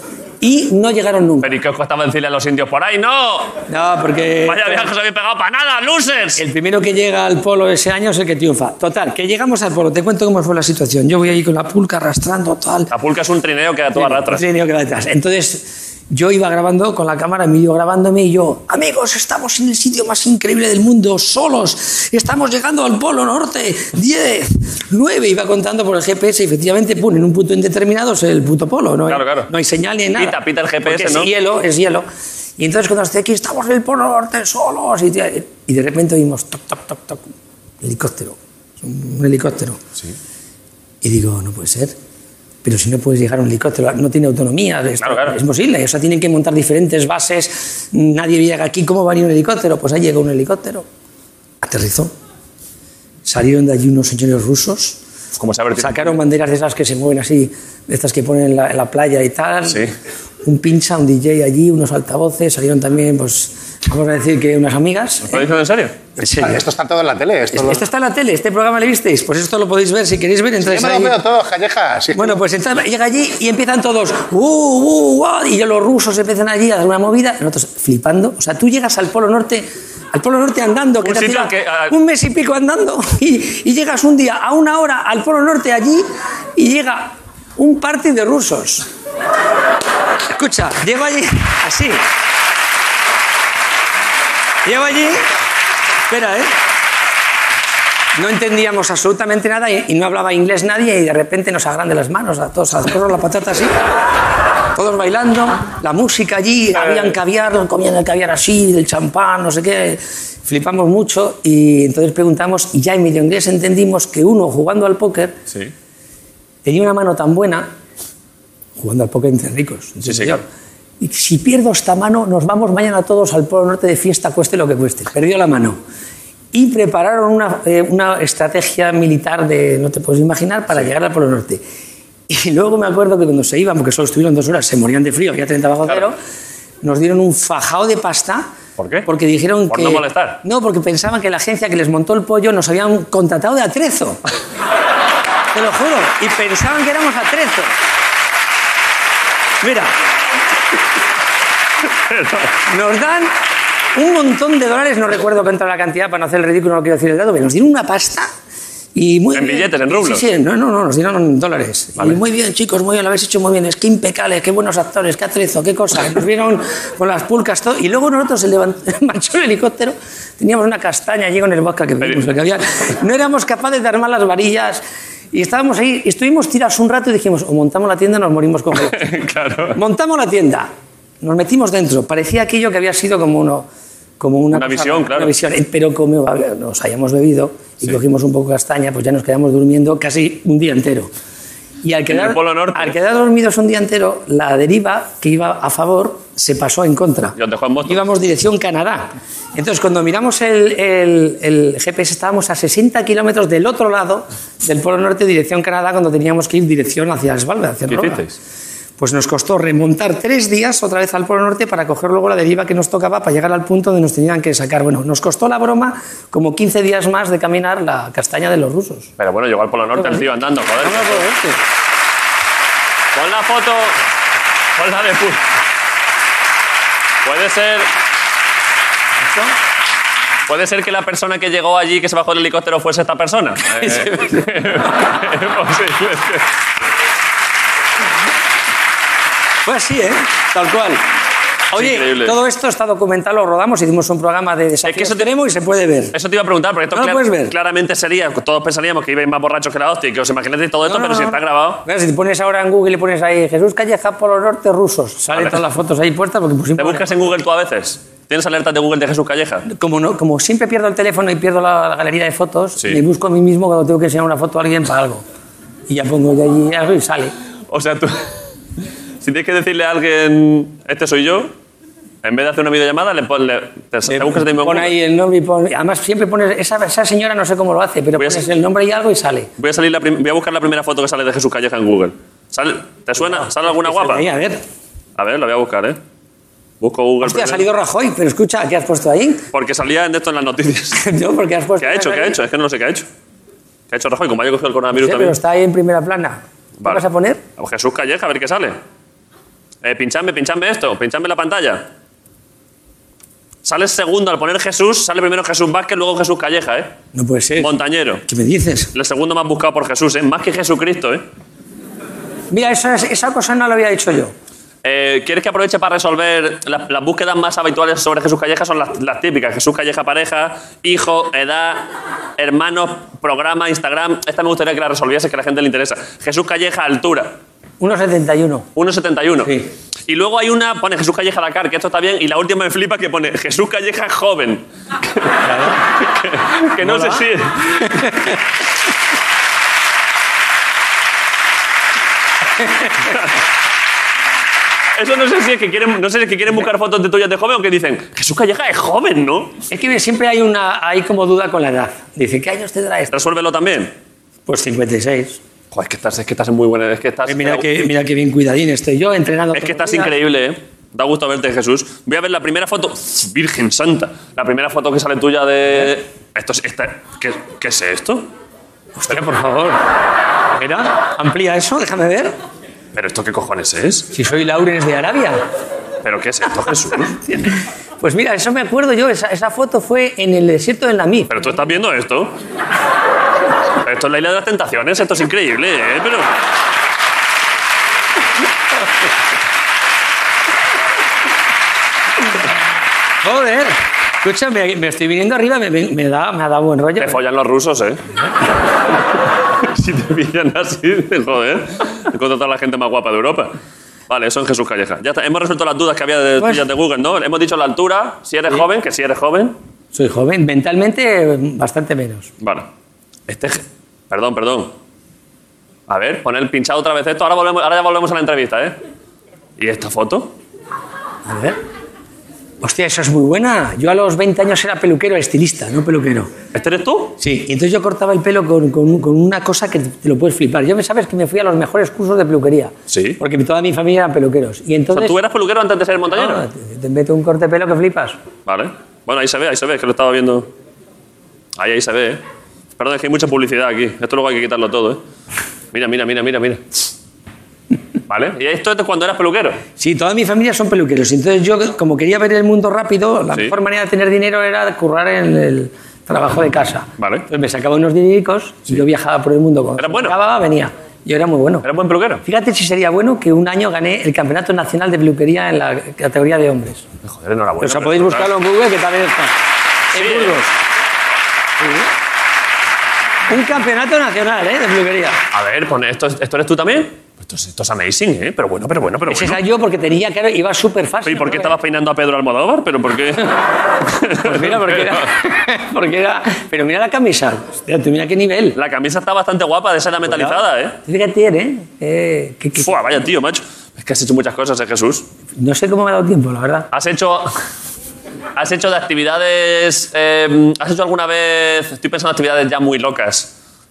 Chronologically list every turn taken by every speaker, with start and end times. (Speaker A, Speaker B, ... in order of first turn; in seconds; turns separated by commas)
Speaker A: 0.4-1.5, Speaker B: 1.4-3.6, Speaker A: 3.7-4.9, Speaker B: 4.4-6.4, Speaker A: 6.4-12.9, Speaker B: 12.9-14.4, Speaker A: 14.0-32.1, Speaker B: 29.1-29.5, Speaker B: 30.2-31.3, Speaker A: 32.6-37.3, Speaker A: 37.8-39.8, Speaker A: 41.0-42.0, Speaker A: 42.6-50.9, Speaker B: 45.0-45.4, Speaker A: 51.6-52.1, Speaker A: 53.2-55.0, Speaker B: 55.4-56.2, Speaker A: 55.8-59.9, Speaker B: 59.7-59.9, Speaker A: 60.4-65.5, Speaker B: 65.3-66.0, Speaker A: 66.2-66.6, Speaker C: 66.2-67.8, Speaker A: 67.5-71.2, Speaker C: 70.6-72.4, Speaker A: 72.2-88.9, Speaker B: 81.0-81.9, Speaker A: 90.3-92.0, Speaker A: 94.7-95.3, Speaker A: 96.1-96.5, Speaker A: 98.2-103.8, Speaker A: 104.7-115.4, Speaker A: 116.7-117.7, Speaker A: 118.8-120.5, Speaker B: 120.0-120.4, Speaker A: 121.0-125.8, Speaker A: 126.5-131.6, Speaker A: 132.3-136.2, Speaker A: 136.8-138.5, Speaker B: 138.8-139.1, Speaker A: 139.1-144.2, Speaker B: 139.7-140.4, Speaker A: 145.5-147.7, Speaker A: 149.6-149.9, Speaker B: 152.1-152.5, Speaker A: 152.7-153.3, Speaker A: 153.9-158.3, Speaker A: 158.9-179.1, Speaker B: 159.3-160.2, Speaker B: 172.0-172.3, Speaker B: 178.8-179.8, Speaker A: 179.7-180.7, Speaker A: 181.2-183.7, Speaker A: 184.2-191.1, Speaker B: 184.5-185.3, Speaker A: 191.8-208.3, Speaker B: 192.1-193.0, Speaker B: 197.4-198.0, Speaker B: 207.9-208.3, Speaker A: 209.0-219.1, Speaker B: 219.2-221.3, Speaker A: 220.0-221.6, Speaker B: 223.1-224.0, Speaker B: 224.8-225.4, Speaker B: 227.2-227.9, Speaker A: 229.3-229.5, Speaker B: 230.5-236.5, Speaker A: 233.8-234.4, Speaker A: 239.7-241.1, Speaker A: 241.7-246.2, Speaker B: 241.8-242.4, Speaker B: 244.8-245.2, Speaker B: 246.1-251.8, Speaker A: 246.9-247.5, Speaker A: 250.8-257.1, Speaker B: 255.3-255.6, Speaker B: 256.8-259.6, Speaker A: 259.7-265.2, Speaker A: 265.9-267.3, Speaker B: 267.7-268.4, Speaker B: 269.2-271.5, Speaker B: 272.2-274.9, Speaker A: 274.1-279.5, Speaker B: 278.2-278.4, Speaker B: 279.6-284.2, Speaker A: 283.2-284.6, Speaker B: 285.2-286.0, Speaker B: 286.8-287.7, Speaker A: 287.2-289.4, Speaker B: 289.5-291.0, Speaker A: 290.9-292.4, Speaker B: 291.8-293.1, Speaker B: 293.9-295.4, Speaker A: 294.9-297.4, Speaker B: 297.6-298.8, Speaker B: 299.8-301.9, Speaker B: 303.6-306.9, Speaker A: 307.1-308.9, Speaker B: 307.6-308.2, Speaker B: 308.9-311.2, Speaker A: 312.5-314.3, Speaker B: 314.8-321.9, Speaker B: 322.4-327.4, Speaker A: 327.8-328.7, Speaker B: 328.8-338.1, Speaker A: 335.4-335.8, Speaker A: 336.8-337.3, Speaker A: 337.8-338.4, Speaker A: 342.6-342.9, Speaker B: 345.0-349.6, Speaker A: 349.7-353.1, Speaker B: 353.1-353.9, Speaker A: 354.5-355.4, Speaker B: 355.7-357.7, Speaker A: 357.3-360.1, Speaker B: 359.5-368.3, Speaker A: 369.0-369.8, Speaker A: 370.6-372.3, Speaker B: 372.9-374.1, Speaker A: 374.1-375.4, Speaker B: 376.0-377.2, Speaker A: 377.3-381.3, Speaker B: 381.3-382.3, Speaker B: 383.8-386.3, Speaker A: 393.2-397.2, Speaker B: 397.0-398.0, Speaker B: 399.6-403.6, Speaker B: 404.1-409.6, Speaker A: 409.9-412.3, Speaker B: 412.4-412.7, Speaker B: 413.3-414.7, Speaker B: 415.9-418.8, Speaker B: 419.6-420.3, Speaker A: 421.3-421.6, Speaker A: 422.6-426.3, Speaker B: 426.5-427.2, Speaker A: 427.2-435.2, Speaker B: 432.9-433.2, Speaker B: 434.9-436.4, Speaker A: 436.1-438.2, Speaker B: 438.5-440.5, Speaker B: 441.6-442.2, Speaker B: 442.8-445.0, Speaker B: 445.7-446.9, Speaker B: 448.1-449.6, Speaker A: 449.8-461.7, Speaker B: 457.0-457.3, Speaker B: 459.8-460.1, Speaker B: 461.6-462.2, Speaker A: 462.2-466.9, Speaker B: 467.0-468.3, Speaker A: 467.6-469.4, Speaker A: 469.9-470.5, Speaker B: 469.9-470.4, Speaker A: 471.6-471.9, Speaker A: 473.3-475.2, Speaker B: 475.3-479.4, Speaker A: 479.1-481.6, Speaker B: 481.1-485.1, Speaker A: 484.0-488.6, Speaker B: 488.6-490.8, Speaker A: 490.1-492.9, Speaker B: 492.6-495.1, Speaker A: 495.4-496.7, Speaker B: 496.7-497.3, Speaker B: 498.4-503.3